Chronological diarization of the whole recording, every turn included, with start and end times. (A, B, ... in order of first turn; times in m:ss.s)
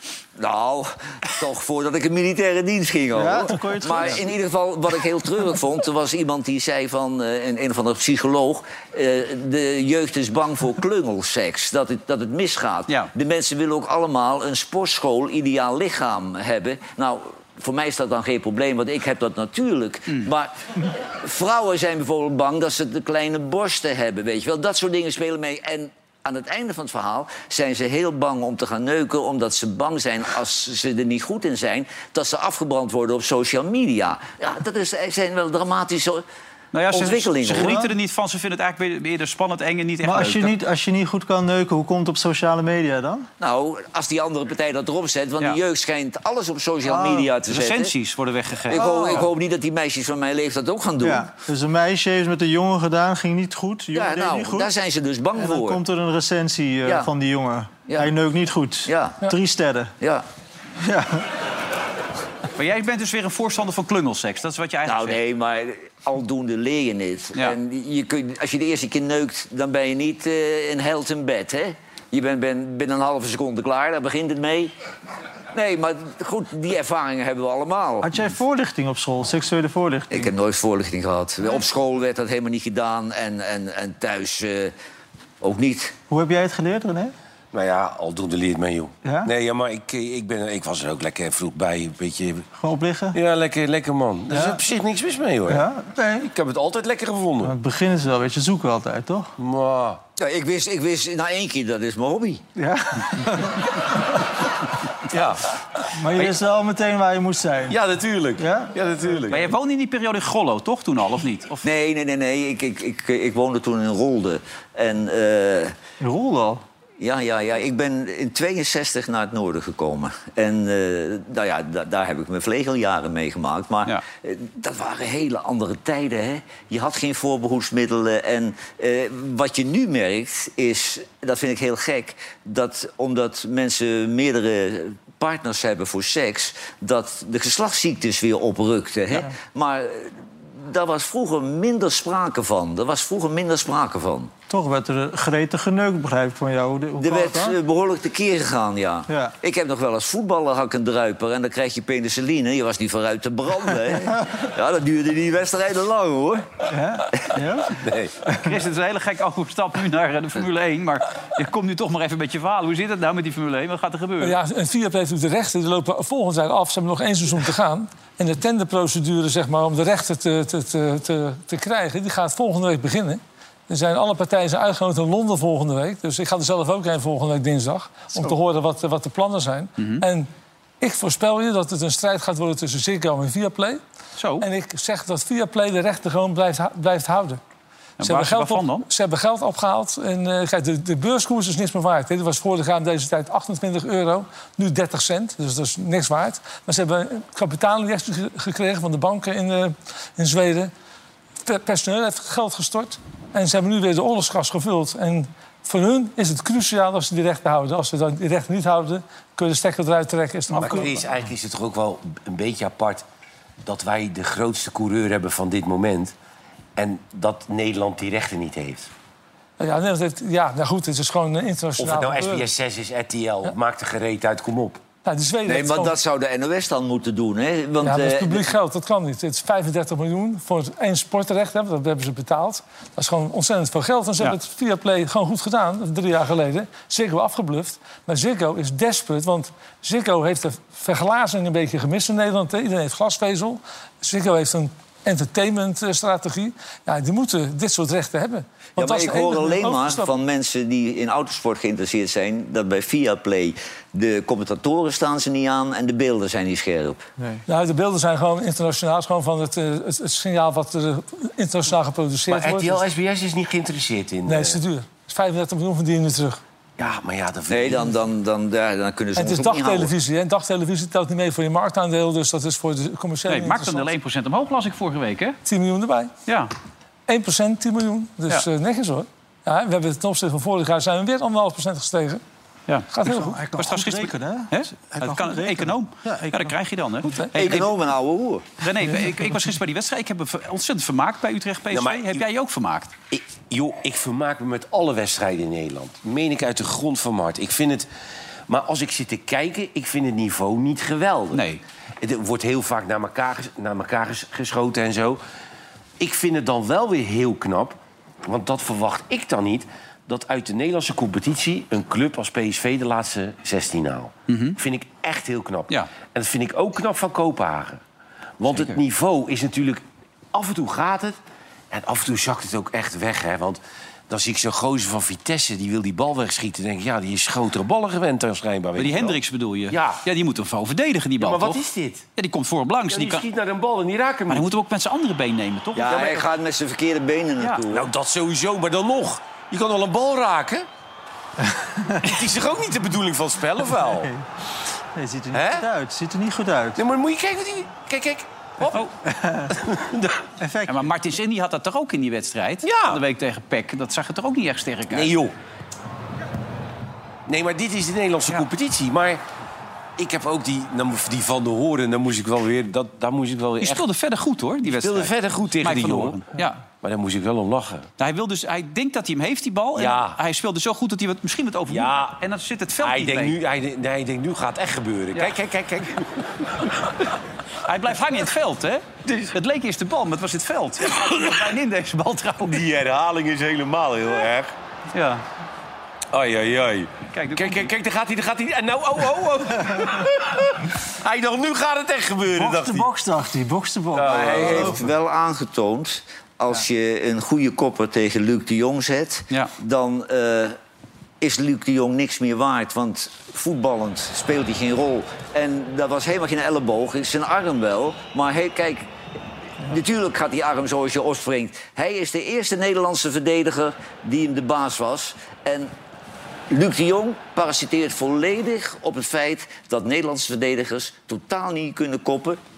0:00.4-0:36.2 A
0:03.2-0:04.2 B
0:36.7-0:40.6 C
0:36.9-0:37.8 A
0:37.6-0:37.9 B
0:40.0-0:43.3 B
0:43.4-0:47.9 A
0:46.8-0:47.3 B
0:47.5-0:49.3 C
0:48.7-0:51.3 A
0:48.7-0:49.3 B
0:51.0-0:54.7 B
0:53.9-0:55.8 A
0:55.4-0:59.9 B
0:58.9-0:59.2 A
1:00.0-1:00.3 A
1:00.8-1:01.3 B
1:02.6-1:05.2 C
1:04.9-1:14.7 A
1:15.5-1:18.1 A
1:18.0-1:20.3 B
1:20.1-1:24.7 A
1:25.4-1:26.0 A
1:26.1-1:27.1 B
1:27.5-1:32.5 D
1:29.0-1:29.3 B
1:32.6-1:33.2 B
1:33.1-1:35.7 D
1:34.3-1:34.6 B
1:35.5-1:36.3 B
1:36.2-1:37.5 D
1:37.4-1:39.3 B
1:39.4-1:40.0 D
1:40.2-1:42.4 A
1:42.6-1:43.7 B
1:45.1-1:45.4 D
1:45.9-1:47.8 B
1:47.7-1:49.5 D
1:48.4-1:48.7 B
1:49.3-1:51.6 C
1:51.6-1:55.8 A
1:56.0-1:56.6 B
1:57.0-2:24.3 A
2:24.5-2:27.6 B
2:27.0-2:36.5 A
2:29.1-2:29.3 B
2:36.7-2:37.8 B
2:37.7-2:38.2 D
2:38.4-2:44.4 C
2:44.2-3:00.3 E
2:59.8-3:00.1 C
3:00.8-3:03.8 E
3:04.2-3:04.5 C
3:04.4-3:07.4 E
3:08.0-3:08.9 C
3:08.0-3:20.7 E
3:21.5-3:31.1 E
3:30.5-3:33.0 D
3:33.6-3:36.1 D
3:36.8-3:38.9 D
3:39.6-3:42.5 E
3:41.8-3:44.8 D
3:45.0-3:46.0 E
3:45.5-3:48.5 A
3:47.8-4:10.1 E
4:08.8-4:17.0 A
4:17.2-4:17.4 B
4:17.5-4:22.9 E
4:22.3-4:24.6 D
4:24.3-4:26.4 E
4:26.8-4:28.0 D
4:27.5-4:29.9 A
4:29.2-4:33.9 E
4:33.3-4:35.4 C
4:35.5-4:36.1 E
4:36.3-4:36.5 C
4:37.1-4:42.2 E
4:42.9-4:43.4 E
4:43.0-4:46.6 B
4:43.6-4:47.7 C
4:47.3-4:48.5 A
4:48.6-4:52.9 C
4:51.7-4:52.2 D
4:53.1-4:57.9 D
4:58.5-5:01.4 D
5:01.3-5:01.6 C
5:02.0-5:05.2 D
5:06.0-5:17.8 D
5:14.3-5:14.6 C
5:18.4-5:21.2 D
5:21.7-5:29.2 D
5:28.8-5:31.6 C
5:29.7-5:30.0 D
5:31.2-5:32.0 D
5:32.2-5:33.3 C
5:32.9-5:34.5 D
5:34.3-5:36.3 C
5:35.8-5:37.9 A
5:37.7-5:40.7 D
5:41.5-5:42.1 B
5:42.0-5:44.1 D
5:45.0-5:46.8 B
5:45.3-5:45.7 D
5:46.8-5:48.8 D
5:48.6-5:48.9 C
5:49.0-5:49.6 B
5:49.6-5:50.2 D
5:50.4-5:50.8 B
5:50.7-5:55.1 C
5:52.6-5:53.0 D
5:54.9-5:55.3 D
5:57.3-5:59.2 D
6:00.0-6:03.8 D
6:03.6-6:06.6 C
6:04.6-6:06.2 D
6:06.8-6:07.9 D
6:08.0-6:13.4 C
6:09.8-6:10.2 D
6:11.7-6:12.2 D
6:12.8-6:16.9 D
6:17.6-6:22.6 C
6:22.4-6:24.5 D
6:24.9-6:25.2 C
6:26.1-6:32.9 D
6:27.1-6:27.7 C
6:32.4-6:34.8 B
6:33.9-6:34.9 D
6:34.2-6:40.6 A
6:41.2-6:48.9 A
6:49.7-6:55.7 A
6:56.5-7:02.4 A